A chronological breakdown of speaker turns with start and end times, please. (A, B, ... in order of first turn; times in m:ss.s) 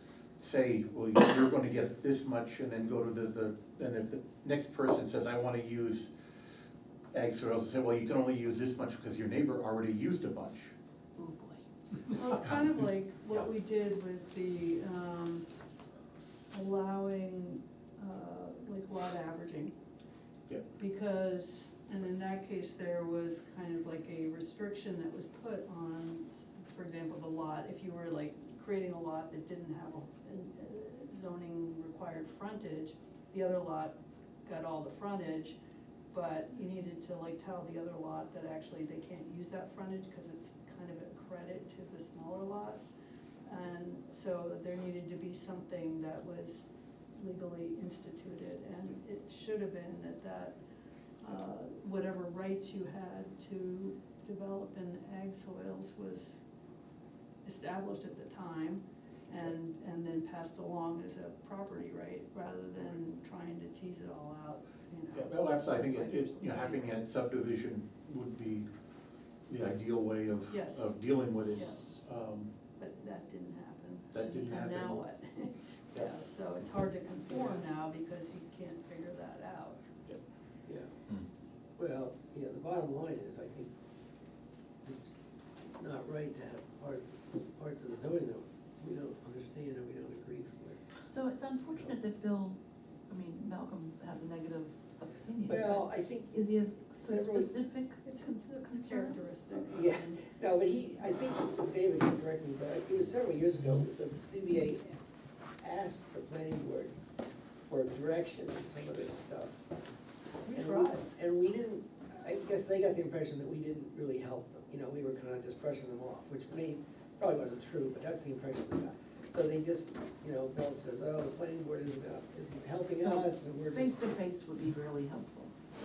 0:00.4-0:06.1 A
0:07.1-0:10.7 A
0:11.2-0:11.6 B
0:12.1-0:15.4 C
0:12.3-0:12.8 A
0:16.5-0:19.7 C
0:20.8-0:35.6 C
0:36.1-0:42.8 C
0:43.4-0:50.6 C
0:51.2-0:56.4 C
0:57.4-1:06.9 C
1:05.1-1:08.7 A
1:09.5-1:12.5 A
1:10.5-1:10.9 C
1:12.8-1:19.8 C
1:14.1-1:15.0 A
1:17.3-1:17.6 D
1:21.8-1:23.7 D
1:24.8-1:25.1 D
1:25.8-1:30.8 D
1:31.1-1:38.0 B
1:35.5-1:37.5 D
1:38.0-1:40.3 C
1:38.6-1:39.6 B
1:39.7-1:44.9 D
1:45.6-1:46.9 D
1:47.7-1:49.6 D
1:50.4-1:51.1 C
1:50.5-2:04.1 D
2:02.9-2:05.5 B